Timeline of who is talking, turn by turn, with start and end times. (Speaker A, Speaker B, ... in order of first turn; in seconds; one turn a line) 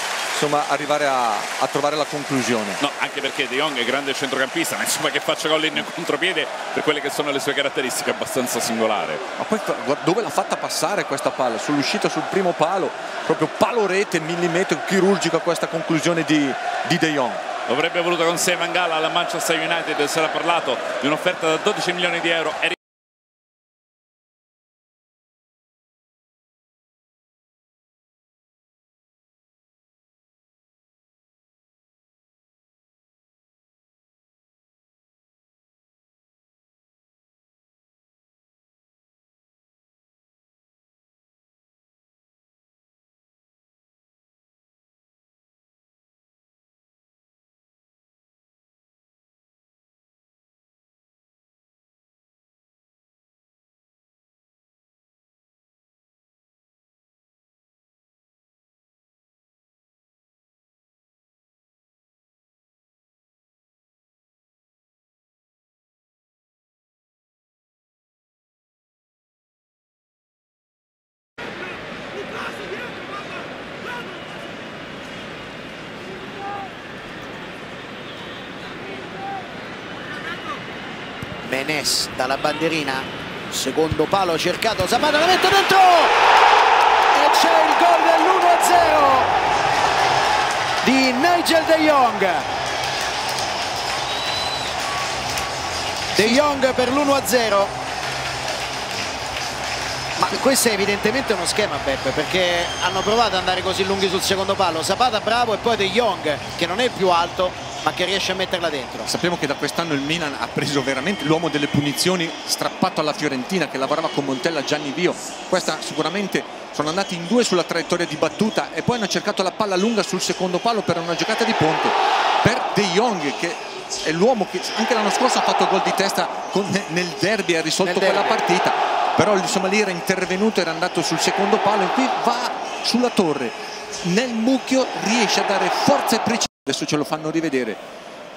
Speaker A: 0.3-2.8
Speaker B: 2.8-9.2
Speaker A: 9.3-17.4
Speaker B: 17.7-22.8
Speaker C: 81.4-86.1
Speaker C: 87.1-89.3
Speaker C: 90.8-92.5
Speaker C: 96.1-97.7
Speaker C: 100.2-109.1
Speaker A: 109.1-137.8